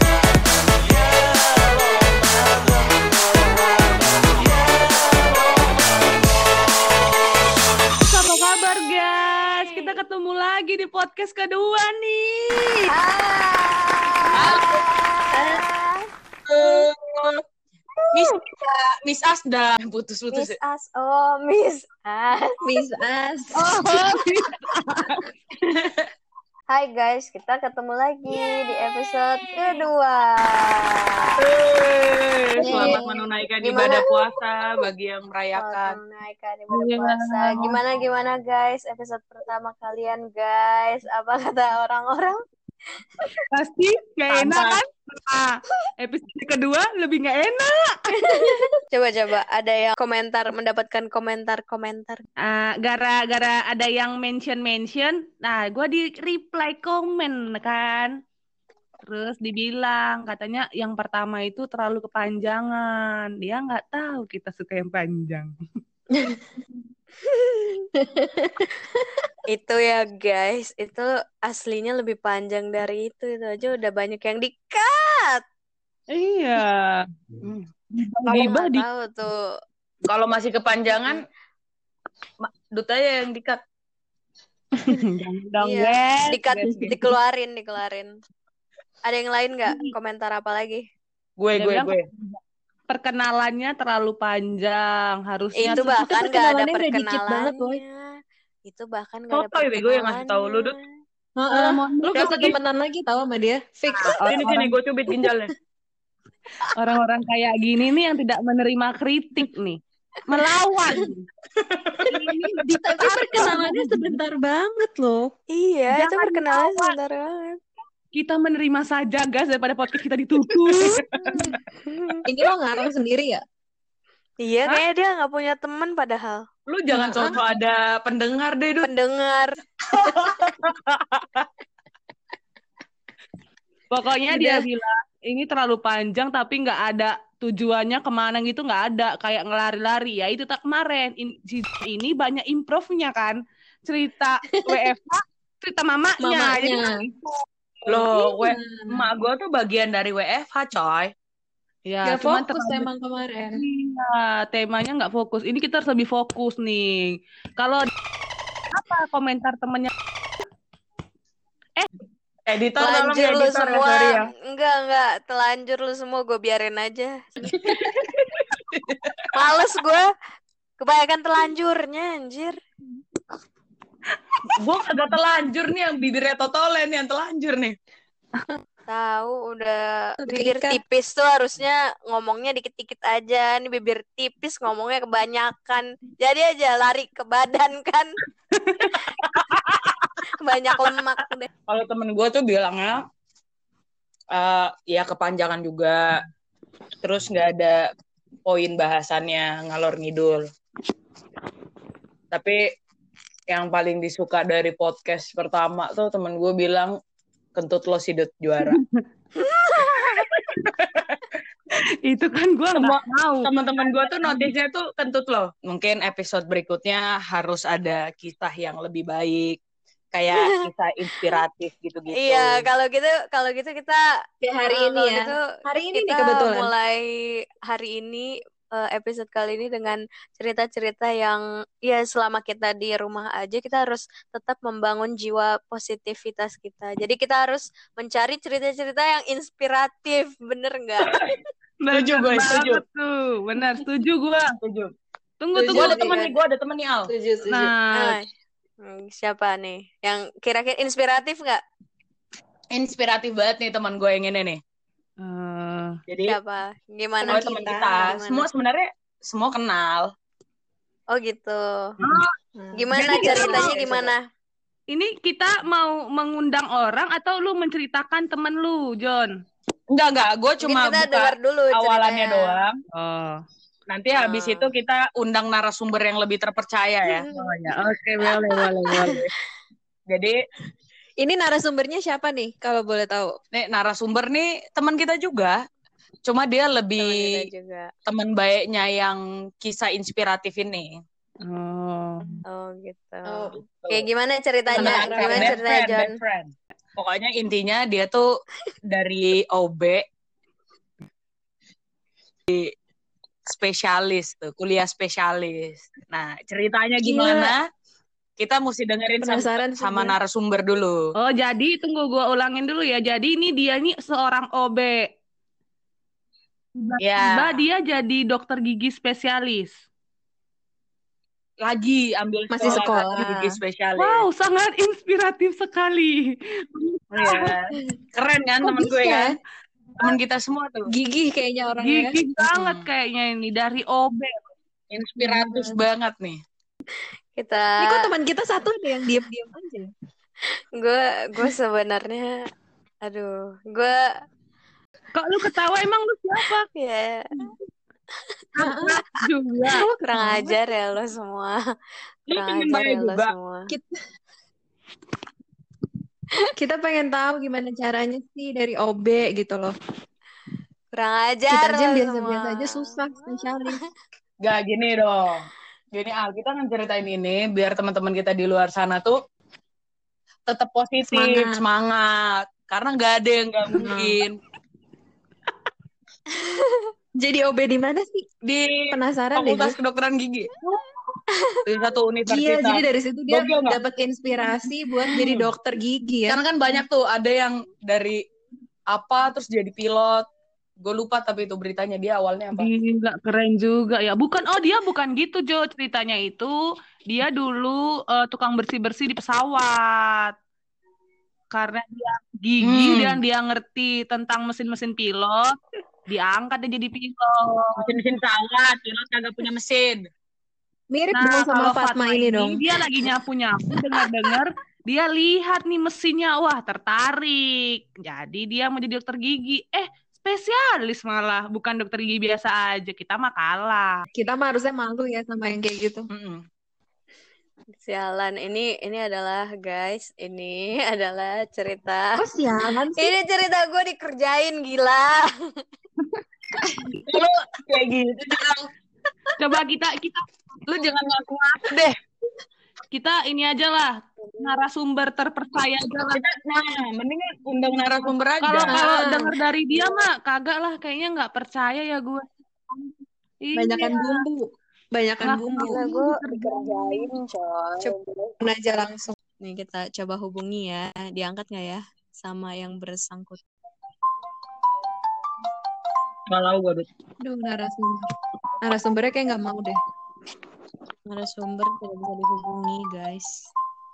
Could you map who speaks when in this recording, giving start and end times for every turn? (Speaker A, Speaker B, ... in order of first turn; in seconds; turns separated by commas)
Speaker A: 0.7-5.8, Speaker B: 8.0-12.8, Speaker C: 12.9-16.1, Speaker D: 14.4-14.8, Speaker E: 15.4-15.6, Speaker D: 16.5-17.4, Speaker D: 18.1-20.6, Speaker C: 20.3-22.5, Speaker E: 22.6-23.7, Speaker B: 23.6-25.2, Speaker C: 26.7-31.4, Speaker D: 31.4-36.0, Speaker E: 32.6-33.3, Speaker C: 32.6-33.0, Speaker C: 33.6-34.2, Speaker C: 35.5-42.4, Speaker B: 36.7-37.8, Speaker B: 43.5-48.1, Speaker D: 44.3-44.8, Speaker C: 48.4-52.2, Speaker B: 52.4-58.1, Speaker B: 59.1-65.5, Speaker C: 67.3-67.7, Speaker E: 68.0-69.2, Speaker C: 69.5-75.4, Speaker B: 76.1-78.8, Speaker C: 78.2-79.3, Speaker D: 80.1-81.2, Speaker C: 80.8-81.2, Speaker D: 82.4-83.6, Speaker B: 84.8-86.4, Speaker C: 85.6-88.1, Speaker D: 86.6-87.0, Speaker C: 89.0-90.8, Speaker D: 91.4-92.1, Speaker B: 91.5-96.0, Speaker C: 95.6-98.1, Speaker E: 95.8-97.8, Speaker C: 98.7-100.8, Speaker D: 99.3-100.8, Speaker E: 101.3-104.6, Speaker B: 101.5-102.5, Speaker D: 102.2-102.5, Speaker B: 104.0-104.7, Speaker D: 104.2-105.5, Speaker B: 106.7-111.3, Speaker D: 111.6-112.1, Speaker B: 112.1-114.1, Speaker E: 112.1-115.3, Speaker C: 115.5-117.6, Speaker B: 115.9-117.0, Speaker B: 118.1-121.0, Speaker D: 120.8-121.0, Speaker C: 121.2-122.2, Speaker E: 122.3-123.4, Speaker C: 124.4-126.4, Speaker D: 126.7-128.9, Speaker E: 126.9-127.4, Speaker C: 128.8-129.5, Speaker D: 129.9-131.4, Speaker B: 133.9-148.0, Speaker E: 134.3-134.6, Speaker E: 146.2-146.9, Speaker D: 147.9-151.1, Speaker E: 148.3-149.1, Speaker B: 151.9-152.9, Speaker E: 152.0-153.6, Speaker B: 153.5-157.9, Speaker B: 158.7-159.9, Speaker D: 162.5-164.3, Speaker C: 162.8-167.5, Speaker D: 168.7-169.2, Speaker C: 169.3-170.1, Speaker C: 170.8-172.6, Speaker D: 174.6-177.8, Speaker C: 178.9-188.1, Speaker E: 180.2-180.8, Speaker C: 190.3-191.5, Speaker D: 191.7-193.0, Speaker D: 194.3-196.1, Speaker D: 197.0-197.9, Speaker D: 198.4-200.5, Speaker D: 202.3-202.6, Speaker D: 203.5-206.9, Speaker D: 207.6-208.8, Speaker B: 208.6-209.0, Speaker C: 209.6-210.1, Speaker D: 210.8-211.2, Speaker B: 211.8-213.5, Speaker D: 212.7-219.6, Speaker B: 214.2-214.5, Speaker D: 220.1-222.7, Speaker C: 222.1-224.0, Speaker E: 224.4-226.7, Speaker C: 224.7-225.4, Speaker C: 225.9-227.0, Speaker C: 227.7-241.2, Speaker D: 241.1-241.3, Speaker B: 241.8-244.5, Speaker D: 241.9-242.8, Speaker D: 244.6-244.9, Speaker B: 245.4-246.1, Speaker E: 245.5-246.2, Speaker D: 245.7-247.1, Speaker E: 247.1-247.7, Speaker B: 247.4-248.2, Speaker C: 247.9-248.2, Speaker C: 248.8-251.6, Speaker D: 252.7-254.6, Speaker B: 255.2-256.0, Speaker D: 256.1-256.4, Speaker C: 256.2-258.5, Speaker E: 257.2-258.1, Speaker D: 257.3-260.1, Speaker C: 261.1-261.9, Speaker E: 262.6-263.8, Speaker C: 262.8-264.2, Speaker D: 262.9-264.1, Speaker B: 264.9-269.3, Speaker D: 269.9-272.8, Speaker C: 270.6-272.6, Speaker B: 272.9-273.4, Speaker D: 273.9-277.7, Speaker C: 274.1-274.7, Speaker B: 277.4-279.2, Speaker D: 278.8-279.3, Speaker D: 280.1-280.4, Speaker E: 281.2-283.3, Speaker D: 283.5-285.6, Speaker D: 286.2-287.3, Speaker C: 287.0-287.9, Speaker D: 288.1-290.9, Speaker B: 291.4-292.4, Speaker C: 292.5-296.1, Speaker D: 293.6-294.0, Speaker D: 294.7-298.2, Speaker E: 294.7-295.6, Speaker D: 298.9-300.0, Speaker D: 303.4-307.6, Speaker E: 307.0-307.5, Speaker D: 308.4-311.0, Speaker E: 309.2-310.1, Speaker B: 311.2-315.1, Speaker B: 316.8-319.8, Speaker D: 317.0-317.6, Speaker D: 321.6-324.2, Speaker E: 322.5-323.5, Speaker B: 324.0-327.5, Speaker D: 327.1-329.4, Speaker E: 328.6-329.4, Speaker D: 330.0-330.9, Speaker E: 330.9-332.5, Speaker B: 331.8-334.4, Speaker D: 332.5-332.8, Speaker D: 334.9-336.4, Speaker E: 335.2-335.8, Speaker C: 337.4-338.1, Speaker E: 337.8-339.9, Speaker C: 340.8-342.3, Speaker C: 343.0-344.0, Speaker B: 345.1-346.7, Speaker C: 346.7-347.3, Speaker B: 348.6-349.9, Speaker E: 348.6-349.0, Speaker C: 349.8-351.6, Speaker E: 350.1-350.6, Speaker D: 352.3-353.3, Speaker C: 352.3-353.7, Speaker E: 353.7-354.0, Speaker E: 356.6-359.7, Speaker C: 360.9-363.5, Speaker E: 361.5-363.8, Speaker D: 364.4-369.2, Speaker D: 370.4-374.4, Speaker E: 371.1-371.6, Speaker E: 373.8-374.2, Speaker C: 376.3-376.8, Speaker E: 377.2-378.4, Speaker D: 378.4-380.6, Speaker E: 378.9-379.8, Speaker D: 381.6-383.8, Speaker E: 382.2-386.4, Speaker D: 386.3-388.2, Speaker D: 388.9-390.3, Speaker D: 390.8-392.7, Speaker B: 392.5-396.6, Speaker B: 397.1-400.3, Speaker B: 401.5-405.6, Speaker D: 402.6-403.2, Speaker B: 406.1-407.9, Speaker D: 407.8-410.0, Speaker E: 410.9-413.1, Speaker B: 411.1-424.1, Speaker E: 424.1-426.1, Speaker D: 426.1-426.4, Speaker C: 427.8-432.1, Speaker E: 432.2-433.1, Speaker C: 433.0-435.3, Speaker D: 437.1-438.7, Speaker B: 439.4-440.2, Speaker D: 440.7-441.9, Speaker B: 442.9-446.2, Speaker C: 444.2-444.6, Speaker D: 446.1-449.1, Speaker B: 448.4-452.9, Speaker E: 448.7-449.3, Speaker B: 453.4-454.2, Speaker E: 453.5-455.8, Speaker B: 455.2-457.1, Speaker C: 455.6-458.3, Speaker E: 457.8-459.1, Speaker C: 459.4-463.4, Speaker D: 466.3-466.9, Speaker E: 467.2-468.1, Speaker E: 468.6-469.8, Speaker C: 471.1-473.4